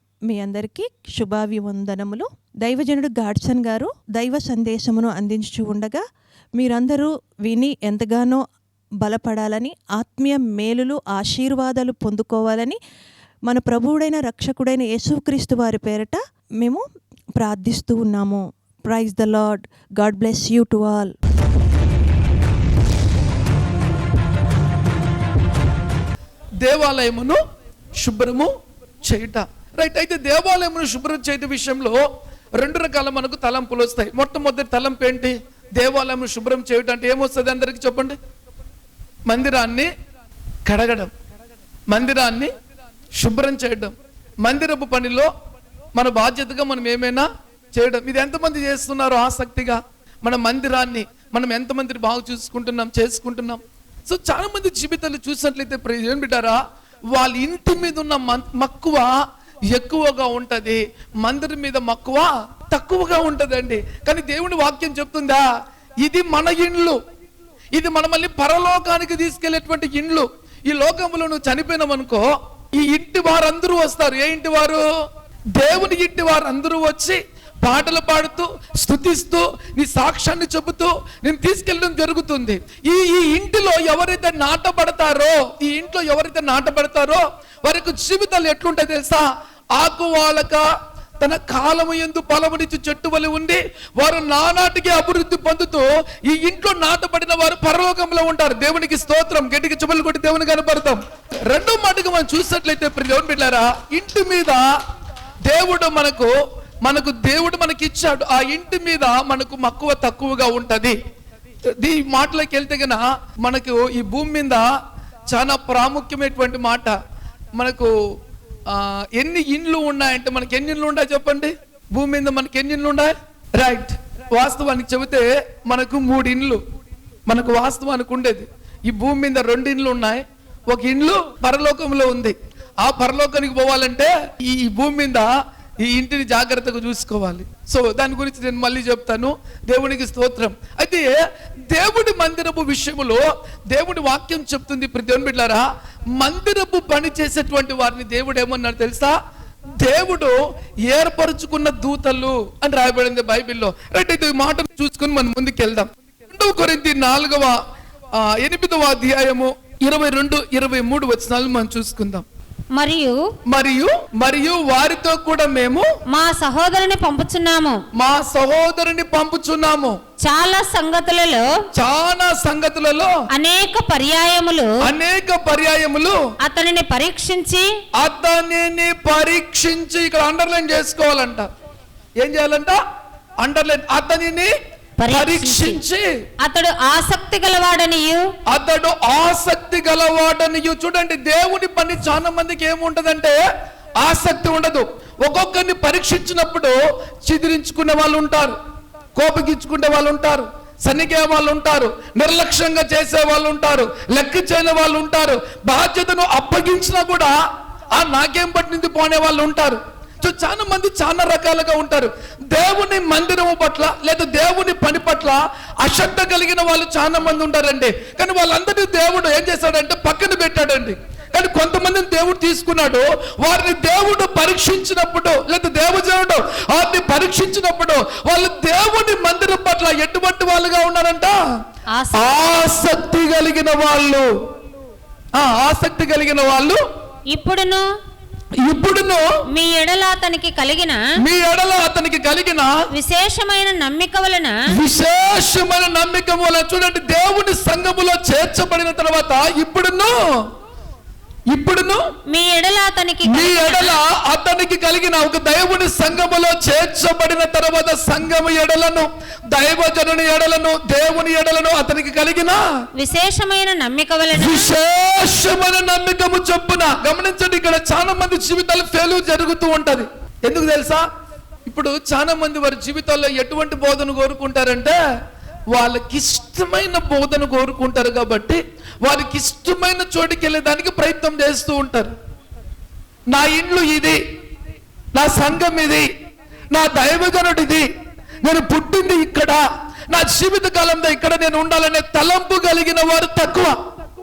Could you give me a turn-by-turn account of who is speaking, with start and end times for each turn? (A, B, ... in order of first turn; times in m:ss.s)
0:00.3-0:06.0 A
0:06.6-0:08.4 A
0:09.0-0:12.8 A
0:13.5-0:16.8 A
0:17.4-0:21.1 A
0:26.6-0:27.4 B
0:28.0-0:28.5 B
0:29.0-0:32.0 B
0:32.6-0:38.2 B
0:39.3-0:39.9 B
0:40.7-0:41.1 B
0:41.9-0:42.5 B
0:43.2-0:45.3 B
0:46.0-0:59.2 B
0:59.7-1:05.5 B
1:06.0-1:07.0 B
1:07.7-1:14.9 B
1:15.6-1:30.7 B
1:31.2-1:44.7 B
1:45.5-1:51.0 B
1:51.8-1:54.7 B
1:55.3-1:57.0 B
1:57.6-1:57.9 B
1:58.7-2:06.6 B
2:07.3-2:25.7 B
2:26.2-2:29.2 B
2:29.8-2:30.4 B
2:30.9-2:37.6 B
2:38.1-2:42.2 B
2:42.7-2:43.2 C
2:43.5-2:45.9 B
2:46.1-2:47.8 C
2:48.0-2:50.0 B
2:50.2-2:51.5 C
2:51.7-2:53.2 B
2:53.3-2:54.8 C
2:54.8-2:56.2 B
2:56.4-2:57.7 C
2:58.0-3:01.5 B
3:02.2-3:02.8 B
3:03.4-3:04.5 B
3:05.0-3:05.8 C
3:05.1-3:06.1 B
3:06.4-3:08.3 C
3:08.5-3:13.4 B
3:14.0-3:18.6 B
3:19.2-3:27.3 B
3:27.9-3:51.4 B
3:51.9-3:52.4 C
3:52.2-3:54.3 B
3:55.4-3:56.8 B
3:57.3-3:57.9 C
3:58.6-3:59.2 B
3:59.5-4:01.0 C
4:01.2-4:02.8 B
4:02.9-4:04.6 C
4:04.7-4:10.5 B
4:11.5-4:12.0 B
4:12.3-4:14.0 C
4:13.3-4:22.6 B
4:23.0-4:24.7 C
4:24.4-4:31.0 B
4:31.7-4:35.0 B
4:35.7-4:42.1 B
4:43.3-4:44.2 B
4:45.1-4:46.1 B
4:46.7-4:47.9 B
4:48.4-4:53.8 B